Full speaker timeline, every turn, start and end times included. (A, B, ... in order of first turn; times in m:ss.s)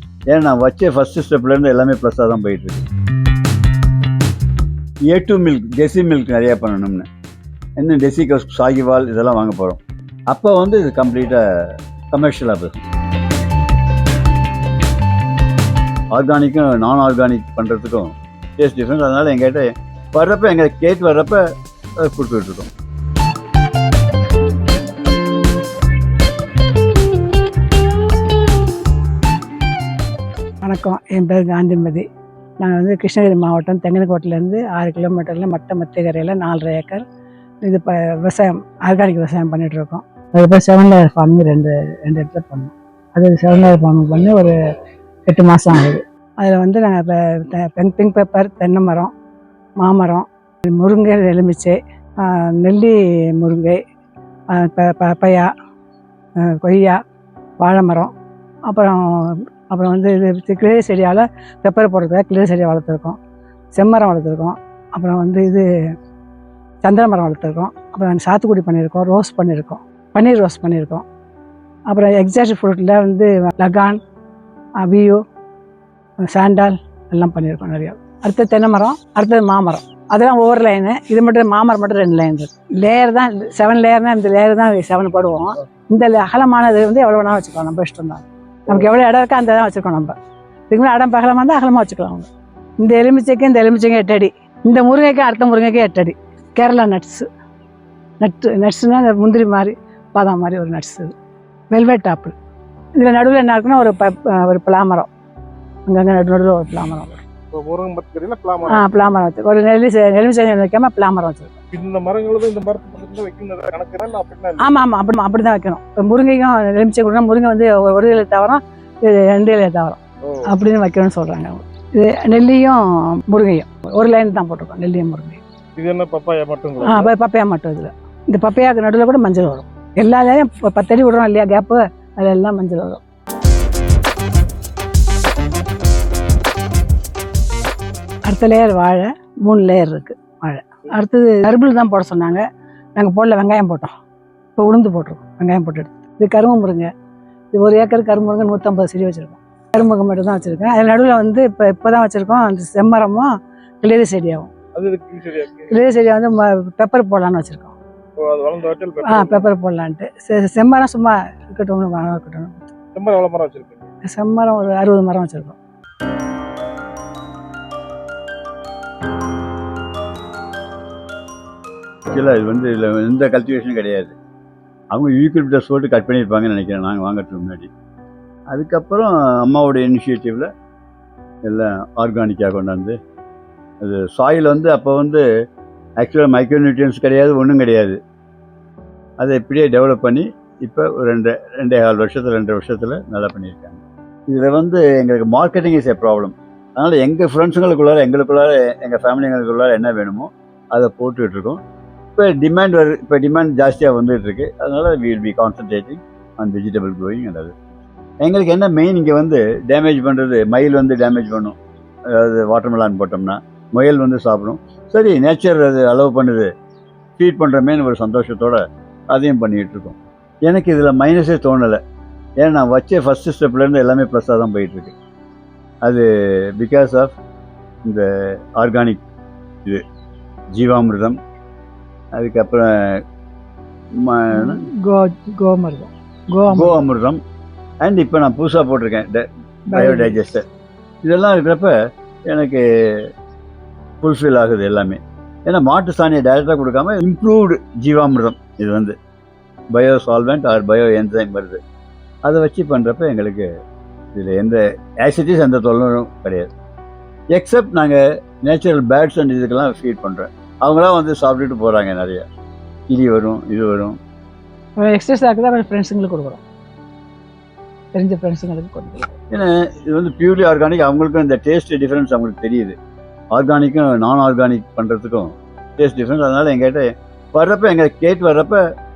0:00.3-0:02.8 A
0:05.1-0:07.0 A
0:07.8-0:11.4 A
0:12.1-0:12.8 A
0:16.1-0:21.4 A
0:22.0-0:22.7 A
0:30.6-0:32.0 B
0:32.6-0:37.0 B
0:37.6-0:44.6 B
0:45.2-0:49.1 B
0:49.8-0:53.8 B
0:54.5-0:55.5 B
0:56.4-0:57.0 B
0:57.6-0:58.1 B
0:58.7-1:03.2 B
1:03.7-1:05.6 B
1:06.8-1:11.0 B
1:11.9-1:14.0 B
1:14.8-1:15.2 B
1:16.2-1:30.1 B
1:30.7-1:37.3 B
1:38.2-1:41.1 B
1:41.7-1:42.3 B
1:43.0-1:45.1 B
1:45.9-1:47.2 B
1:47.5-1:48.9 C
1:48.7-1:51.6 B
1:51.7-1:54.8 C
1:54.6-2:05.4 B
2:00.2-2:00.5 C
2:05.8-2:07.1 C
2:06.8-2:13.0 B
2:18.2-2:22.4 B
2:23.0-2:23.9 B
2:24.6-2:26.9 B
2:27.5-2:33.3 B
2:33.8-2:34.5 B
2:34.7-2:35.8 C
2:35.7-2:37.8 B
2:38.2-2:39.5 C
2:39.0-2:42.7 B
2:42.9-2:43.9 C
2:44.0-2:45.6 B
2:52.1-2:54.1 A
2:54.9-2:57.7 A
2:58.5-3:00.5 A
3:01.4-3:03.0 A
3:03.8-3:05.2 A
3:06.0-3:08.0 A
3:09.2-3:21.6 A
3:22.2-3:27.5 A
3:28.2-3:31.6 A
3:32.1-3:36.5 A
3:37.2-3:41.8 A
3:42.4-3:44.9 A
3:45.8-3:47.2 A
3:47.8-3:49.0 A
3:50.5-3:51.2 A
3:52.1-3:53.0 A
3:54.0-3:54.6 A
3:54.3-3:56.8 B
3:56.5-3:57.2 A
3:57.8-4:00.4 A
3:59.7-4:00.2 B
4:01.0-4:01.7 A
4:02.3-4:03.1 A
4:04.0-4:08.9 A
4:09.7-4:11.6 A
4:12.2-4:13.5 A
4:14.1-4:16.5 A
4:17.3-4:22.2 A
4:22.9-4:24.0 A
4:24.8-4:26.4 B
4:27.9-4:29.1 B
4:29.3-4:32.8 A
4:33.3-4:38.6 A